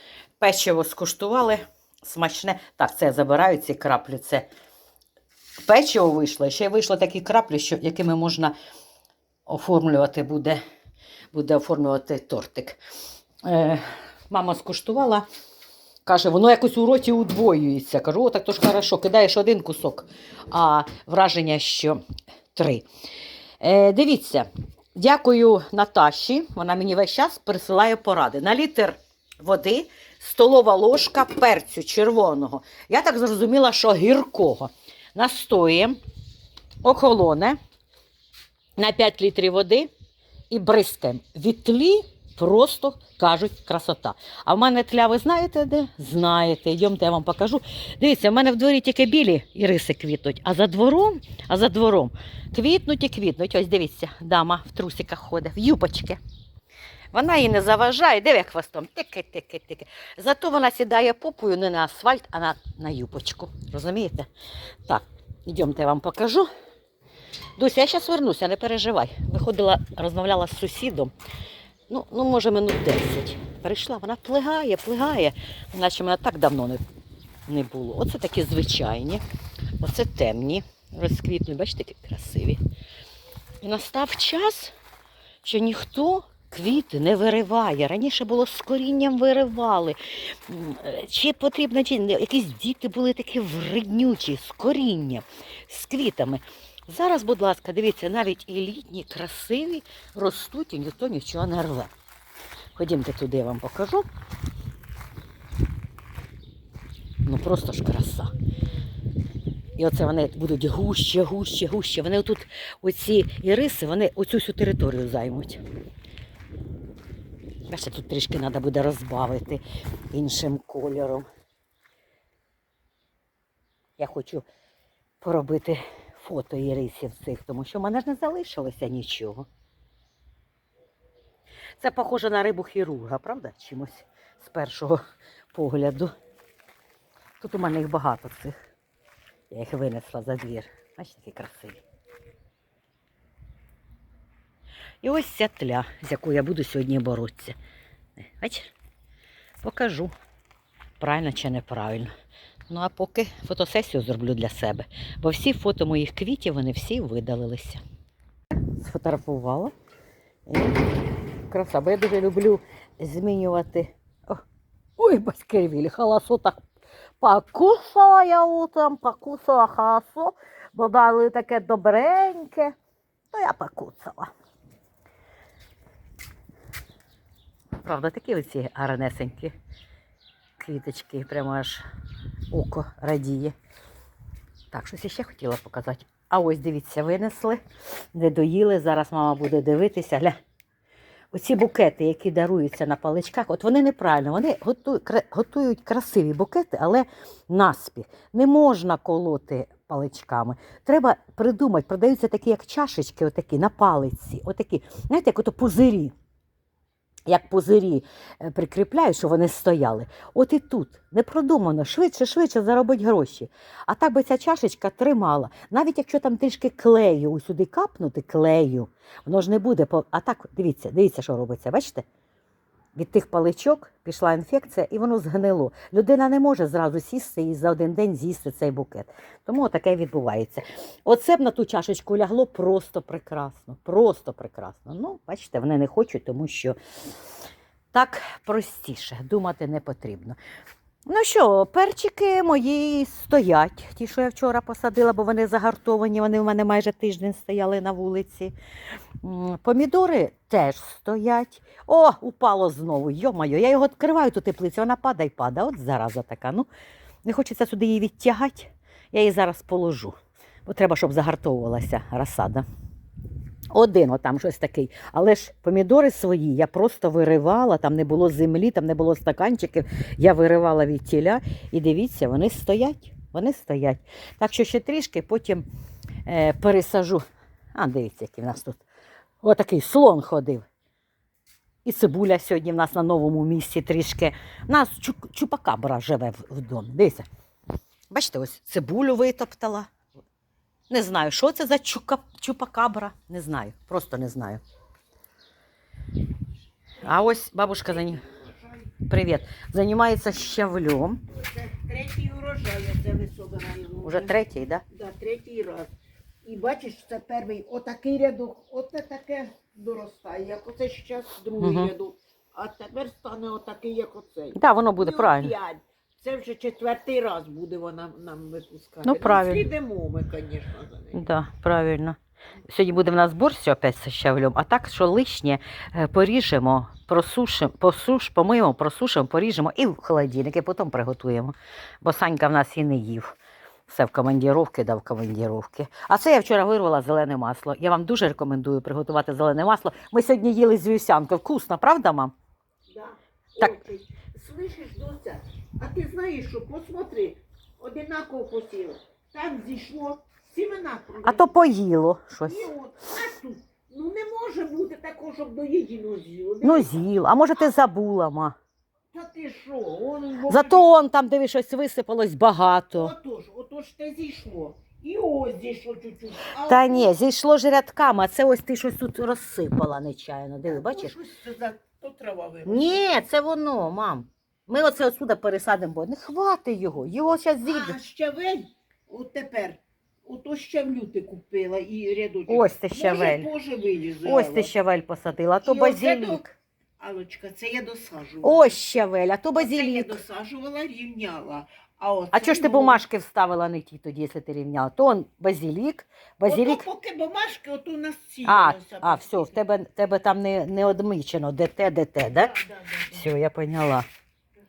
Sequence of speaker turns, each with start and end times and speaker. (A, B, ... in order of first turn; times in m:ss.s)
0:00.4-0:04.5 A
0:05.6-0:08.5 A
0:09.5-0:10.6 A
0:11.3-0:12.8 A
0:13.4-0:15.3 A
0:16.1-0:22.0 A
0:22.5-0:22.9 A
0:23.6-0:36.0 A
0:36.8-0:37.6 A
0:38.8-0:39.9 A
0:40.5-0:56.2 A
0:57.1-1:04.3 A
1:04.9-1:06.5 A
1:07.6-1:11.1 A
1:11.9-1:16.8 A
1:17.5-1:19.2 A
1:19.8-1:22.6 A
1:23.6-1:24.7 A
1:25.4-1:41.9 A
1:42.8-1:44.1 A
1:47.2-1:48.3 A
1:49.8-1:55.6 A
1:57.7-2:01.3 A
2:04.0-2:04.5 A
2:05.2-2:09.5 A
2:11.8-2:15.0 A
2:15.5-2:16.1 A
2:17.4-2:18.6 A
2:19.5-2:21.8 A
2:25.0-2:27.6 A
2:28.2-2:28.7 A
2:29.6-2:30.1 A
2:31.0-2:32.1 A
2:32.7-2:37.8 A
2:38.6-2:39.7 A
2:40.5-2:40.9 A
2:41.5-2:44.4 A
2:45.0-2:46.6 A
2:47.2-2:52.7 A
2:53.3-2:54.3 A
2:57.8-2:59.5 A
3:00.6-3:01.8 A
3:02.5-3:03.5 A
3:04.7-3:07.6 A
3:08.1-3:10.4 A
3:11.3-3:26.1 A
3:27.3-3:42.0 A
3:43.0-3:56.8 A
3:57.9-4:00.4 A
4:01.1-4:08.5 A
4:09.2-4:16.7 A
4:17.2-4:22.6 A
4:23.7-4:35.6 A
4:36.3-4:37.2 A
4:37.8-4:38.8 A
4:39.4-4:40.6 A
4:41.8-4:47.3 A
4:48.1-4:49.9 A
4:50.9-4:54.6 A
4:57.0-4:58.3 A
4:57.0-4:57.3 B
4:57.9-4:58.9 B
4:59.0-5:01.2 A
5:01.3-5:04.4 B
5:04.0-5:04.8 A
5:04.9-5:21.3 B
5:11.6-5:11.9 A
5:14.5-5:15.5 A
5:19.0-5:19.7 A
5:21.1-5:22.2 A
5:22.7-5:33.3 A
5:33.9-5:42.3 A
5:42.9-5:51.6 B
5:51.2-5:52.7 A
5:52.4-5:57.1 B
5:56.6-5:58.6 A
5:59.1-6:01.0 B
6:00.5-6:03.2 A
6:02.9-6:07.1 B
6:06.6-6:11.2 A
6:10.7-6:13.0 B
6:12.7-6:18.0 A
6:17.6-6:24.7 B
6:22.5-6:23.5 A
6:24.2-6:26.6 A
6:25.6-6:26.4 B
6:27.0-6:28.8 B
6:28.4-6:30.2 A
6:29.6-6:33.0 B
6:32.3-6:36.8 A
6:36.5-6:39.6 B
6:38.4-6:42.6 A
6:42.4-6:43.2 B
6:43.1-6:44.1 A